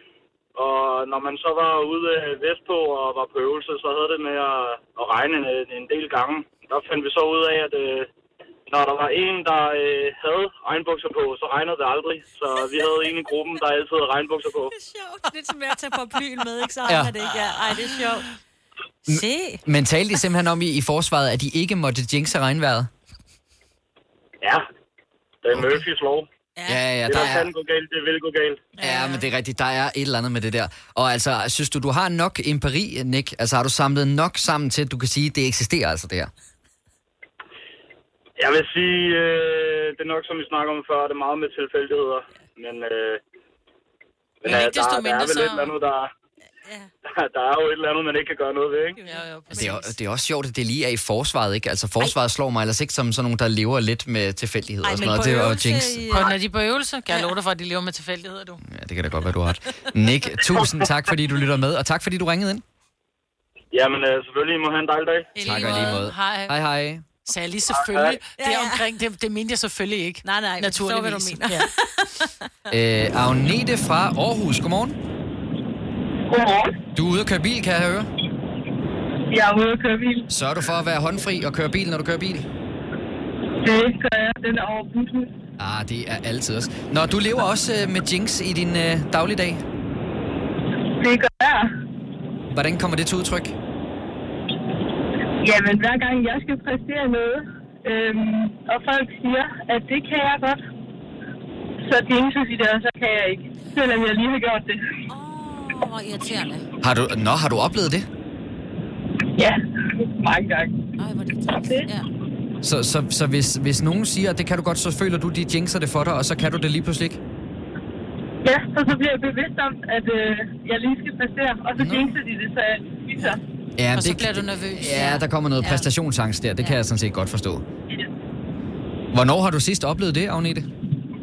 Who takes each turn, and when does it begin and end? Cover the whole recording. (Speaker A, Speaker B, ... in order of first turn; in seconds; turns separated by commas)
Speaker A: 0.6-8.1, Speaker A: 8.7-14.7, Speaker B: 14.7-18.3, Speaker C: 16.9-17.1, Speaker B: 19.1-19.6, Speaker C: 19.1-22.9, Speaker A: 25.4-26.3, Speaker B: 26.6-27.3, Speaker C: 26.7-27.5, Speaker A: 27.1-28.7, Speaker D: 28.8-29.2, Speaker C: 28.8-36.3, Speaker A: 38.4-43.2, Speaker A: 44.4-46.1, Speaker D: 44.5-45.8, Speaker A: 47.0-49.0, Speaker B: 49.0-49.7, Speaker D: 49.0-49.9, Speaker C: 49.5-56.1, Speaker B: 54.8-56.4, Speaker D: 56.1-58.6, Speaker C: 58.6-62.6, Speaker A: 63.7-65.4, Speaker D: 65.3-66.6, Speaker C: 65.4-67.1, Speaker B: 65.5-66.0, Speaker D: 67.3-71.7, Speaker A: 67.9-68.2, Speaker B: 68.4-68.8, Speaker B: 70.2-72.4, Speaker C: 72.7-75.0, Speaker E: 76.3-76.8, Speaker C: 77.0-78.1, Speaker E: 79.3-80.3, Speaker C: 80.3-82.5, Speaker E: 83.6-85.3, Speaker C: 85.6-89.6, Speaker E: 91.0-91.7, Speaker C: 92.5-93.6, Speaker E: 95.4-100.6, Speaker E: 101.9-104.8, Speaker B: 105.1-106.6, Speaker C: 106.8-108.1, Speaker E: 109.4-110.8, Speaker B: 111.0-112.1, Speaker E: 111.5-111.9, Speaker C: 112.6-117.2, Speaker E: 118.4-123.4, Speaker C: 121.8-122.2, Speaker C: 123.8-127.6, Speaker D: 123.9-125.2, Speaker B: 124.9-125.9, Speaker C: 129.1-130.7